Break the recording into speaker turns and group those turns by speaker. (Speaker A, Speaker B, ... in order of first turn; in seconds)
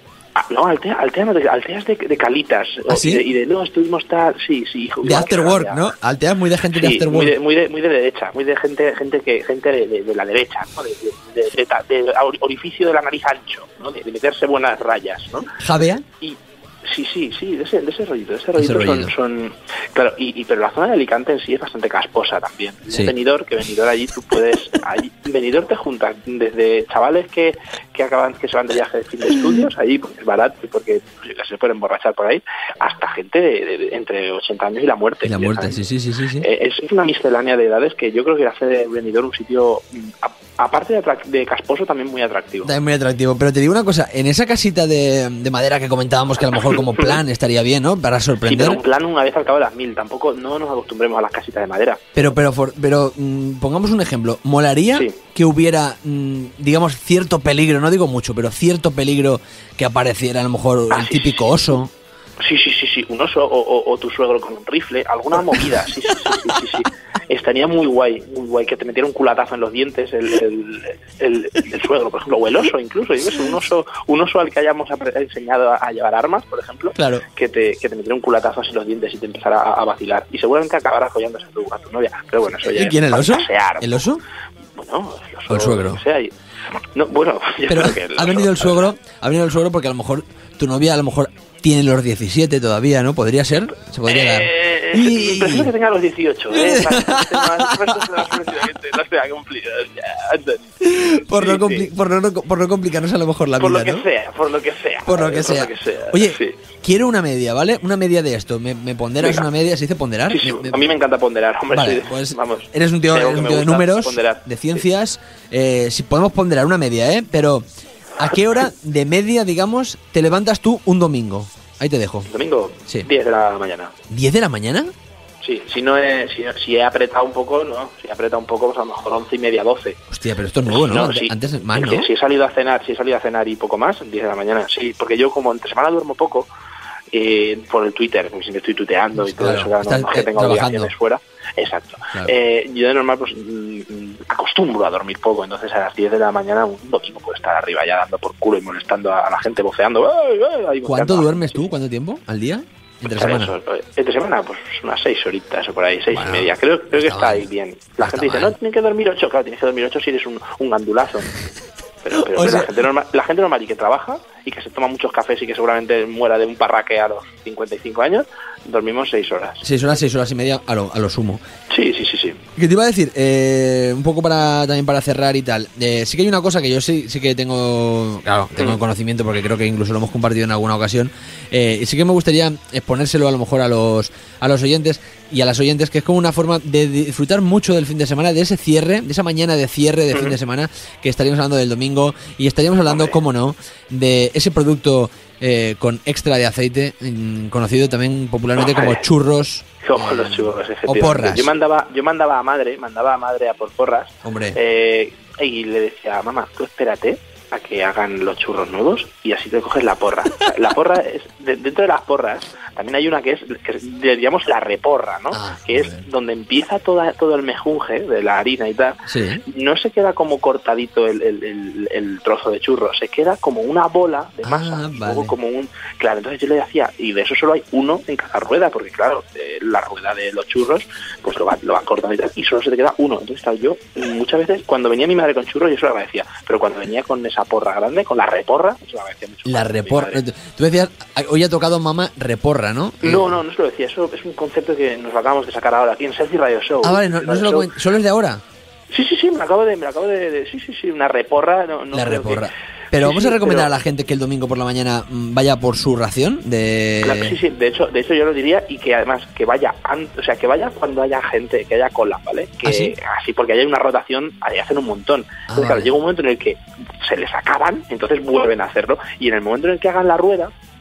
Speaker A: 0.3-5.9, 6.7-15.5, 16.2-35.8, 36.4-42.7, 48.5-52.0, 60.9-61.5, 62.4-83.9, 84.8-86.3, 86.9-88.9, 94.0-100.7, 101.3-101.9, 103.6-106.6, 110.3-114.8, 122.3-123.9, 125.4-130.0, 130.7-136.5, 137.1-151.6, 153.1-161.3, 162.0-169.6, 171.7-172.4, 192.9-193.2, 198.6-199.0, 199.8-240.2, 243.0-247.7, 248.9-252.4, 252.9-253.7, 257.0-270.5
Speaker B: 2.9-3.2, 5.0-7.3, 15.6-16.0, 18.6-19.1, 35.2-36.5, 42.6-48.8, 52.1-61.9, 77.0-77.2, 82.6-84.2, 85.5-86.0, 87.7-95.7, 96.5-98.6, 100.8-104.0, 105.0-110.8, 111.7-117.6, 118.2-122.3, 124.1-124.9, 130.1-132.1, 139.2-140.9, 150.8-153.5, 156.1-157.5, 158.0-158.5, 162.2-162.7, 169.6-171.4, 172.6-201.5, 204.2-204.6, 215.3-216.1, 219.1-219.4, 224.4-225.3, 239.4-243.4, 246.8-248.4, 251.9-257.4, 262.6-262.9, 265.5-265.9